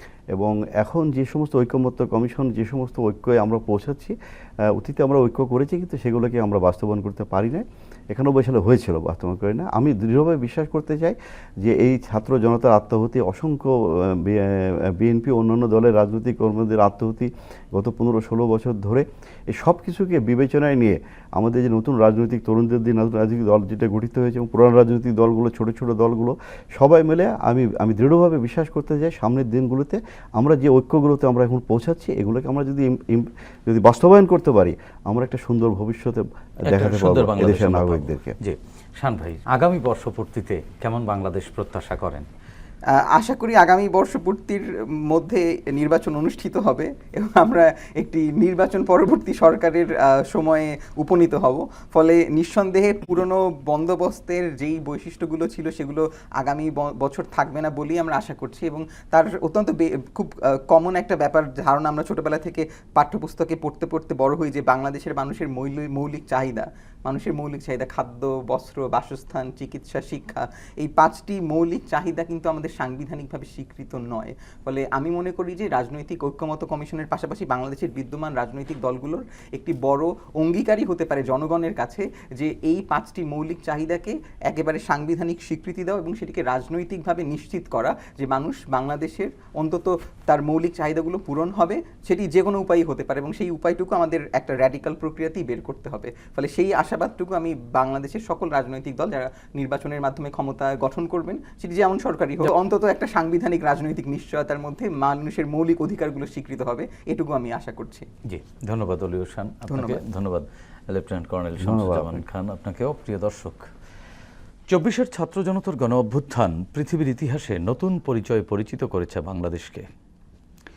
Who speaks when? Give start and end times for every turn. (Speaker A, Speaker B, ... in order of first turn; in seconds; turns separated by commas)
Speaker A: 0.3-38.4, Speaker B: 36.7-42.2, Speaker C: 42.9-108.1, Speaker B: 108.2-113.7, Speaker C: 109.7-110.0, Speaker A: 111.6-112.2, Speaker B: 114.7-119.9